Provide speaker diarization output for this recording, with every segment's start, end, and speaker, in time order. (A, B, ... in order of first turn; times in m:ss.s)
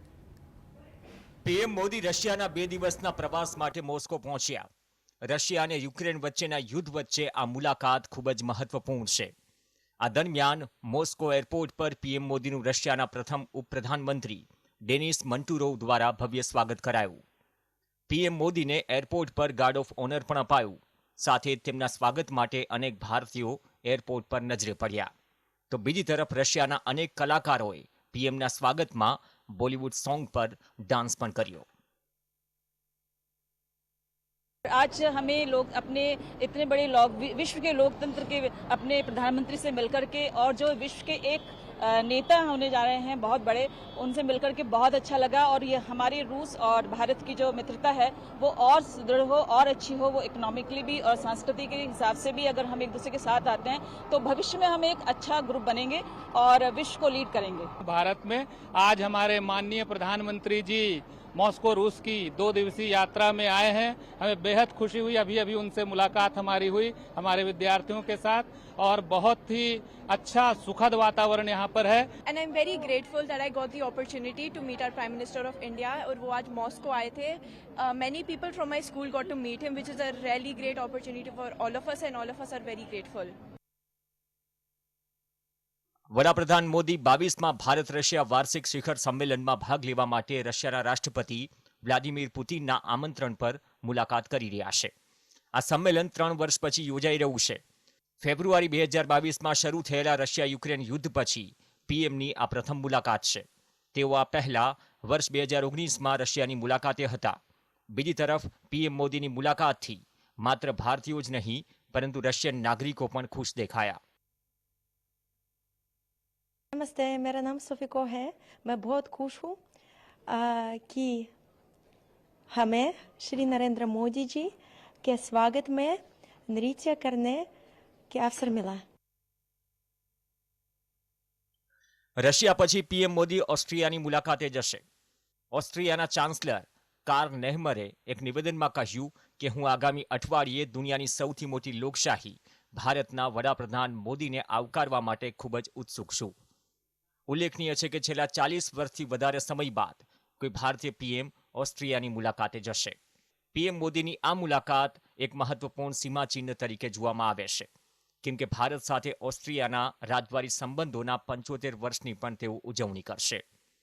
0:01.4-0:04.7 A
0:05.2-0:09.3 A
0:10.0-0:17.2 A
0:18.1-0:25.1 A
0:25.7-0:31.6 A
0:34.7-0:57.7 B
0:57.8-1:12.1 C
1:12.2-1:23.3 D
1:26.1-1:34.9 A
1:35.6-1:37.6 A
1:38.2-1:47.4 A
1:47.9-1:54.0 A
1:56.7-1:59.6 E
2:00.3-2:01.3 E
2:02.5-2:06.0 E
2:06.5-2:07.5 E
2:08.1-2:08.8 E
2:12.2-2:14.8 A
2:15.5-2:26.3 A
2:27.3-2:33.0 A
2:33.5-2:37.7 A
2:38.2-2:43.4 A